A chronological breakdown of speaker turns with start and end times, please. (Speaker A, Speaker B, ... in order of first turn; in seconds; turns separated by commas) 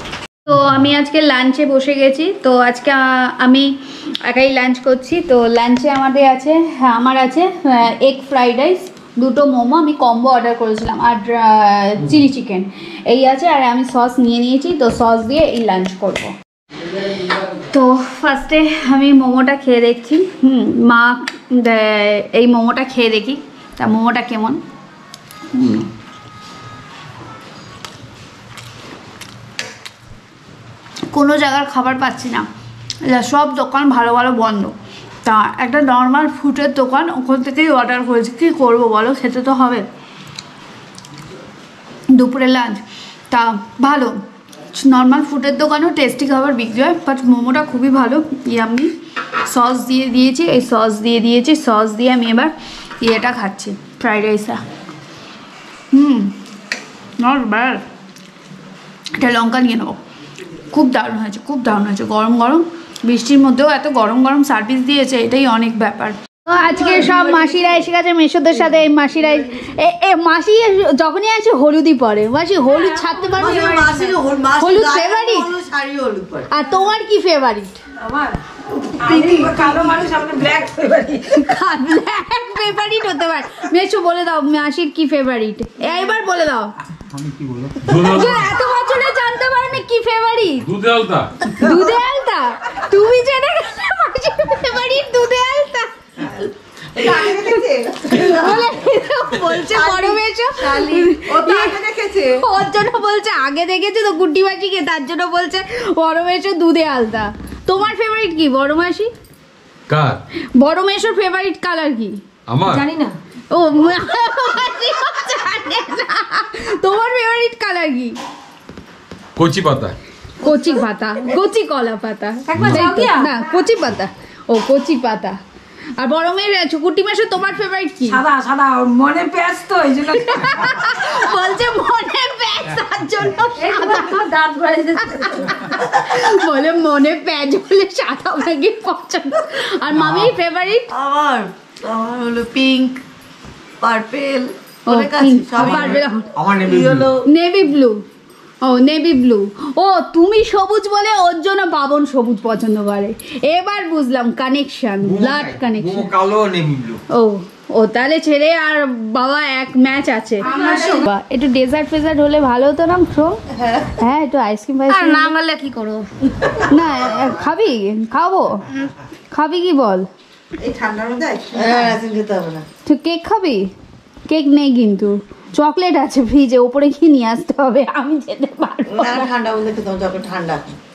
Speaker A: 0.5-16.4, Speaker A: 17.6-24.6, Speaker A: 25.5-25.9, Speaker A: 31.1-32.5, Speaker A: 33.1-39.9, Speaker A: 42.1-44.2, Speaker A: 44.7-48.9, Speaker A: 49.5-54.6, Speaker A: 55.9-56.4, Speaker A: 57.2-57.8, Speaker A: 59.2-60.0, Speaker A: 60.7-73.9, Speaker B: 72.7-74.2, Speaker C: 73.4-76.5, Speaker A: 74.6-75.5, Speaker A: 76.5-77.8, Speaker B: 78.0-78.4, Speaker C: 79.0-79.5, Speaker B: 79.0-81.5, Speaker A: 81.3-86.7, Speaker D: 87.1-87.8, Speaker E: 87.8-88.6, Speaker A: 88.0-90.7, Speaker E: 90.6-91.5, Speaker A: 91.5-95.9, Speaker C: 97.0-98.7, Speaker A: 97.0-101.8, Speaker C: 99.5-102.4, Speaker A: 102.4-109.1, Speaker E: 109.9-110.2, Speaker A: 110.6-112.2, Speaker E: 112.5-112.9, Speaker B: 112.7-113.2, Speaker A: 113.5-118.2, Speaker E: 119.4-120.0, Speaker A: 120.4-125.4, Speaker B: 122.5-123.3, Speaker E: 122.5-123.0, Speaker A: 126.0-128.2, Speaker B: 128.1-130.8, Speaker A: 130.1-134.3, Speaker B: 133.6-135.6, Speaker A: 135.0-140.9, Speaker C: 140.9-143.0, Speaker C: 143.8-147.2, Speaker A: 144.9-146.3, Speaker D: 145.6-147.1, Speaker A: 147.2-148.0, Speaker A: 148.6-156.1, Speaker D: 155.1-157.0, Speaker A: 157.1-163.4, Speaker B: 160.5-161.0, Speaker C: 163.6-163.9, Speaker A: 164.0-165.3, Speaker B: 164.9-166.5, Speaker A: 166.6-168.7, Speaker A: 169.3-170.1, Speaker C: 170.6-172.7, Speaker A: 172.9-173.6, Speaker A: 174.3-179.3, Speaker C: 178.9-180.6